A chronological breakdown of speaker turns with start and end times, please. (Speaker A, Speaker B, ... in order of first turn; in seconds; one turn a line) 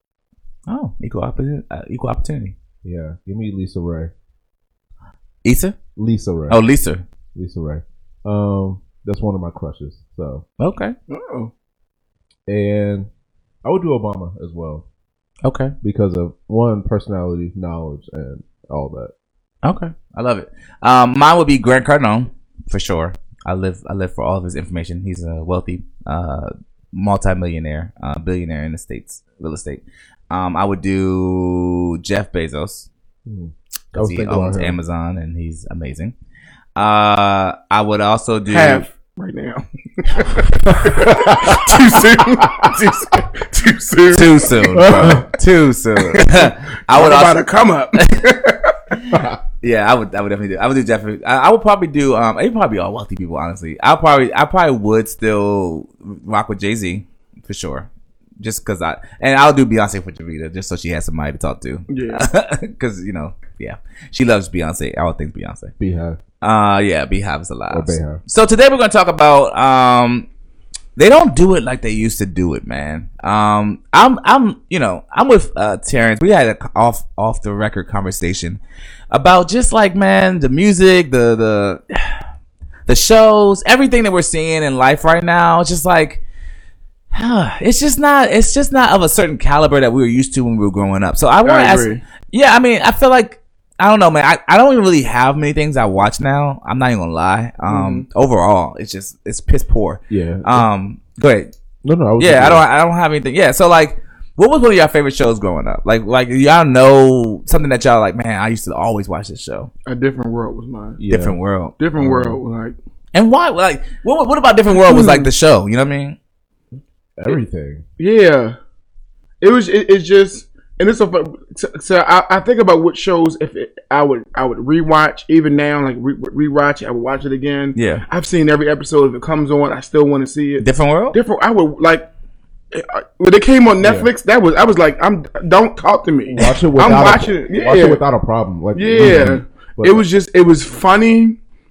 Speaker A: 0.7-2.5
Speaker B: 2.8-4.1
Speaker A: 5.4-5.8
Speaker B: 6.0-6.6
Speaker A: 6.5-7.0
Speaker B: 7.3-10.4
Speaker A: 10.6-10.9
Speaker C: 11.1-11.5
Speaker B: 12.5-13.1
Speaker B: 13.6-14.8
Speaker A: 15.4-15.7
Speaker B: 15.8-19.1
Speaker A: 19.6-32.9
Speaker B: 33.2-34.8
Speaker A: 33.9-36.1
Speaker A: 36.8-38.8
Speaker C: 38.5-45.2
Speaker B: 41.0-41.6
Speaker A: 44.1-47.4
Speaker B: 44.7-45.3
Speaker C: 46.0-49.0
Speaker A: 47.9-48.3
Speaker A: 49.1-57.9
Speaker A: 58.4-65.7
Speaker C: 61.9-62.2
Speaker B: 65.8-66.2
Speaker A: 66.4-70.2
Speaker B: 67.7-68.2
Speaker A: 71.0-78.6
Speaker A: 79.1-82.2
Speaker A: 82.9-86.2
Speaker A: 87.1-101.5
Speaker C: 91.4-92.0
Speaker C: 97.7-98.0
Speaker B: 100.1-100.7
Speaker B: 101.8-102.6
Speaker A: 102.2-109.7
Speaker C: 109.8-111.0
Speaker B: 111.0-111.4
Speaker A: 111.1-111.8
Speaker C: 111.8-112.7
Speaker B: 112.0-112.4
Speaker A: 113.1-116.2
Speaker C: 114.7-115.3
Speaker B: 117.2-117.8
Speaker C: 118.0-118.5
Speaker C: 119.4-132.1
Speaker A: 127.8-128.0
Speaker A: 130.6-131.2
Speaker C: 132.7-138.0
Speaker B: 133.8-134.1
Speaker B: 136.3-140.0
Speaker C: 138.7-141.4
Speaker A: 139.0-139.3